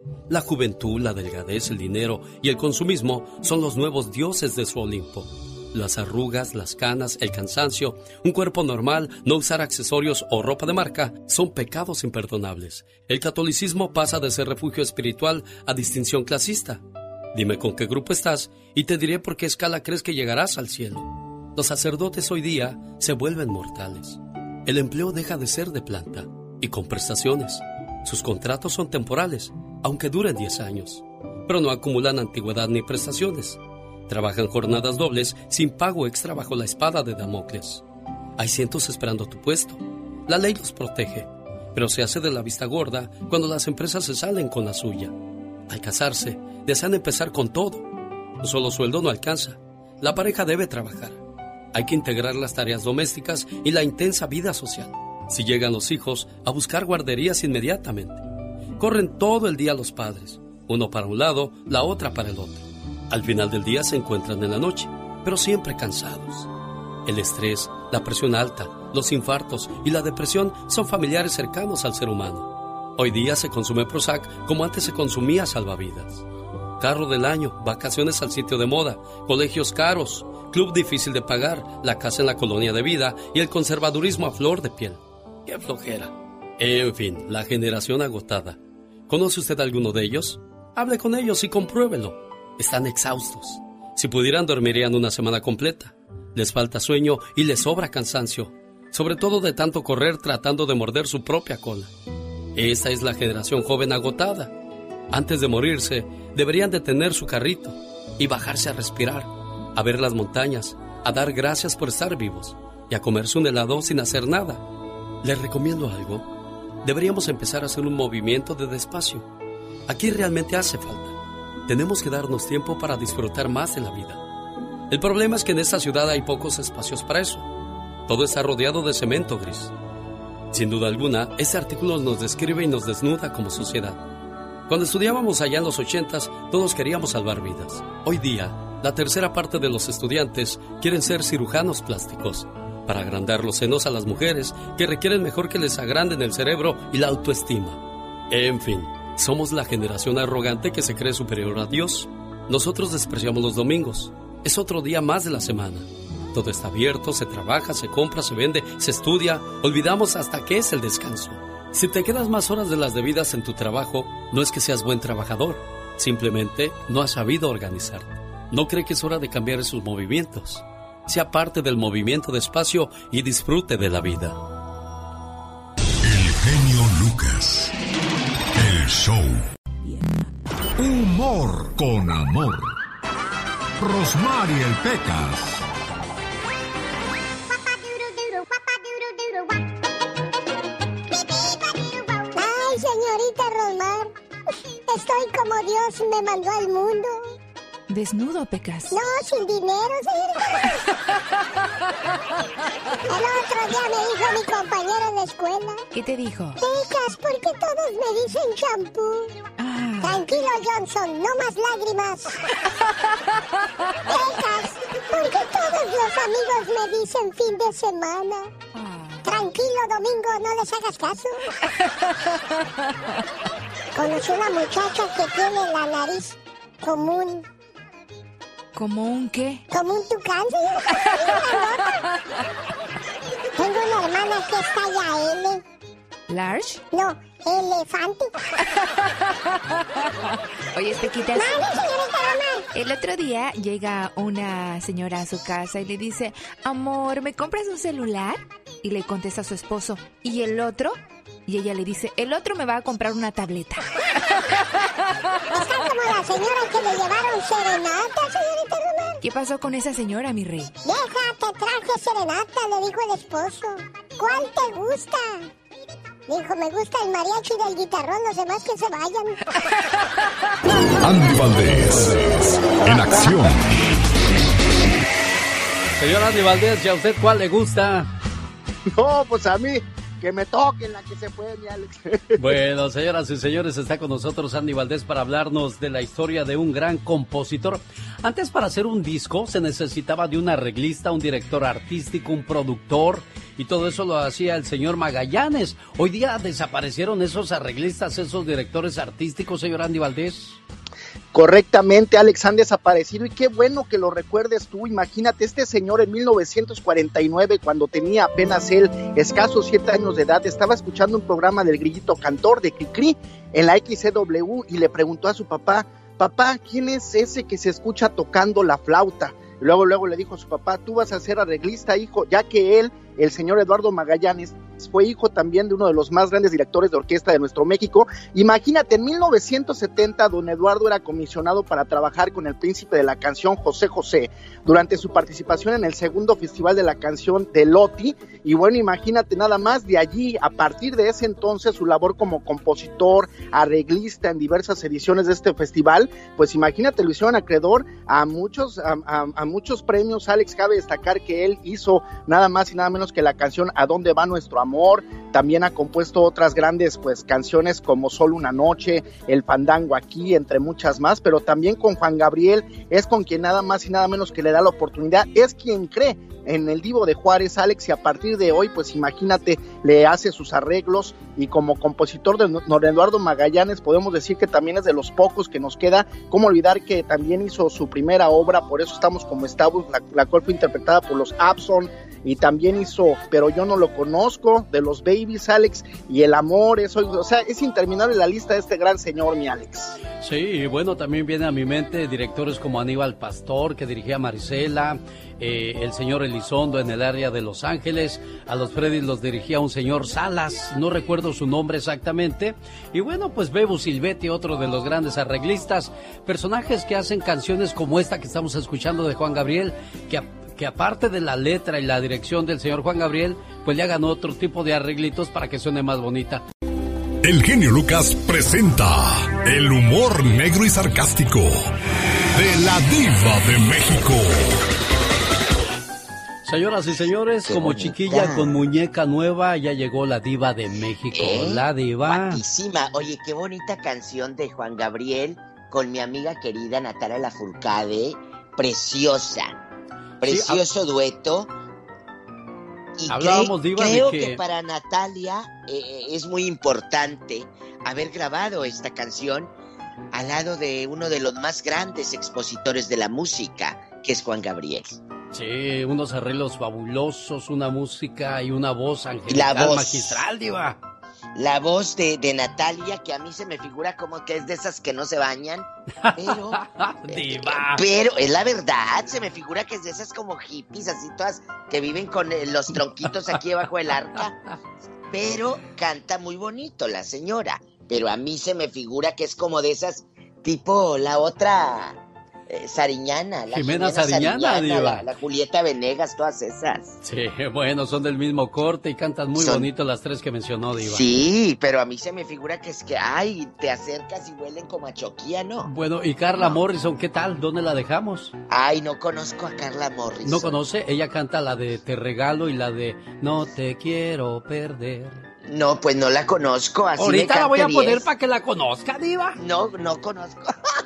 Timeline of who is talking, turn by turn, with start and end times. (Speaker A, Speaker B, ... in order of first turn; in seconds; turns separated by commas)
Speaker A: 0.3-16.8, Speaker A: 17.3-37.8, Speaker A: 38.4-45.1, Speaker A: 45.7-47.9, Speaker A: 48.4-51.2, Speaker A: 51.7-58.2, Speaker A: 58.8-66.5, Speaker A: 67.0-76.2, Speaker A: 76.8-101.9, Speaker A: 102.5-104.5, Speaker A: 105.1-114.6, Speaker A: 115.2-116.3, Speaker A: 116.8-119.3, Speaker A: 119.9-124.2, Speaker A: 124.9-127.5, Speaker A: 128.1-129.7, Speaker A: 130.5-134.0, Speaker A: 134.7-174.4, Speaker B: 176.0-177.7, Speaker B: 178.5-179.4, Speaker B: 180.8-182.7, Speaker B: 183.8-185.6, Speaker C: 187.5-189.7, Speaker C: 191.1-194.1, Speaker C: 194.9-197.3, Speaker D: 197.9-199.0, Speaker C: 198.9-200.5, Speaker C: 203.1-205.8, Speaker D: 205.9-206.6, Speaker C: 206.6-209.3, Speaker D: 209.6-210.3, Speaker C: 210.0-212.3, Speaker C: 214.1-218.5, Speaker D: 218.8-219.3, Speaker C: 219.2-221.4, Speaker C: 224.0-227.4, Speaker D: 228.8-229.7, Speaker C: 229.7-231.8, Speaker C: 233.6-235.6, Speaker D: 236.3-236.8, Speaker C: 236.9-238.3, Speaker D: 240.7-241.7, Speaker C: 241.3-242.6, Speaker D: 242.7-253.8, Speaker C: 255.5-259.2, Speaker D: 259.2-260.7, Speaker C: 260.9-265.5, Speaker C: 266.3-269.4, Speaker B: 271.0-273.8, Speaker A: 276.0-278.1, Speaker E: 279.0-282.4, Speaker A: 282.4-300.6, Speaker E: 301.3-389.9, Speaker A: 390.2-416.4, Speaker B: 417.2-421.7, Speaker B: 422.3-424.6, Speaker A: 426.4-432.4, Speaker F: 427.5-428.5, Speaker F: 431.1-439.5, Speaker F: 440.2-441.5, Speaker A: 440.2-440.6, Speaker F: 443.0-449.5, Speaker A: 443.1-444.4, Speaker F: 450.1-455.0, Speaker A: 455.3-460.8, Speaker F: 459.3-460.3, Speaker F: 461.4-474.4, Speaker A: 466.0-467.8, Speaker F: 475.1-482.0, Speaker F: 482.5-487.0, Speaker A: 483.5-485.1, Speaker A: 487.0-491.1, Speaker F: 489.4-489.7, Speaker F: 490.8-495.7, Speaker A: 495.6-498.3, Speaker F: 498.5-500.6, Speaker A: 500.2-505.2, Speaker F: 505.5-508.1, Speaker A: 507.0-509.4, Speaker F: 509.4-510.5